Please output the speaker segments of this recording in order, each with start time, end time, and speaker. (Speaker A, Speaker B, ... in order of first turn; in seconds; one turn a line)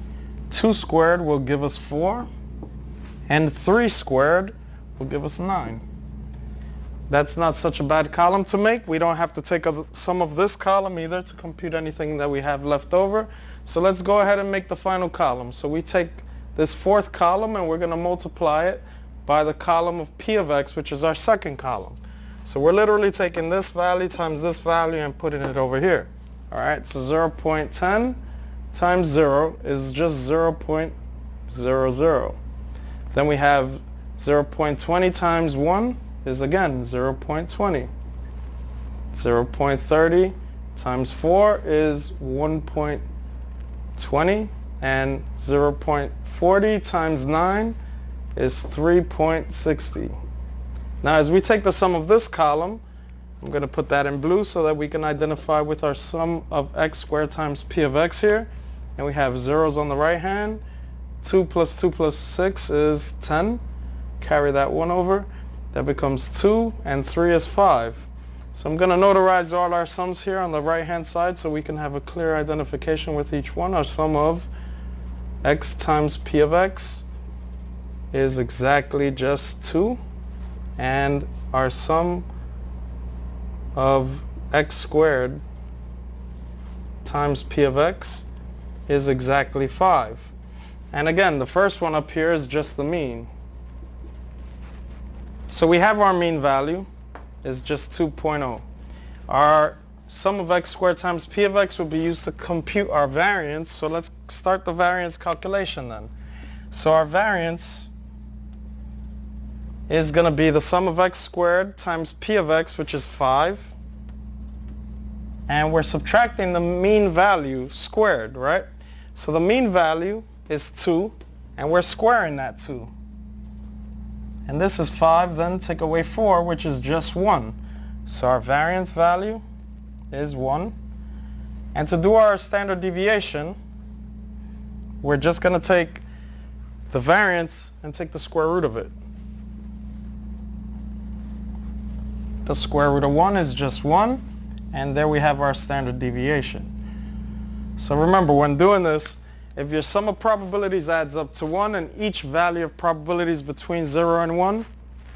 Speaker A: 0.5-2.3
Speaker A: 3.3-5.8
Speaker A: 7.1-28.2
Speaker A: 28.7-30.9
Speaker A: 31.5-32.4
Speaker A: 33.1-37.9
Speaker A: 39.1-43.0
Speaker A: 44.0-47.8
Speaker A: 48.3-50.1
Speaker A: 51.0-52.8
Speaker A: 53.4-60.6
Speaker A: 61.2-63.6
Speaker A: 64.2-74.5
Speaker A: 75.4-77.0
Speaker A: 78.1-80.0
Speaker A: 80.8-82.2
Speaker A: 83.7-85.4
Speaker A: 87.0-88.3
Speaker A: 88.9-90.3
Speaker A: 90.9-93.3
Speaker A: 95.5-96.9
Speaker A: 97.4-98.6
Speaker A: 99.3-106.1
Speaker A: 106.7-107.9
Speaker A: 109.9-113.7
Speaker A: 115.5-122.9
Speaker A: 124.5-129.4
Speaker A: 130.1-130.7
Speaker A: 131.7-133.6
Speaker A: 135.0-136.0
Speaker A: 136.9-138.9
Speaker A: 142.4-146.7
Speaker A: 147.8-154.7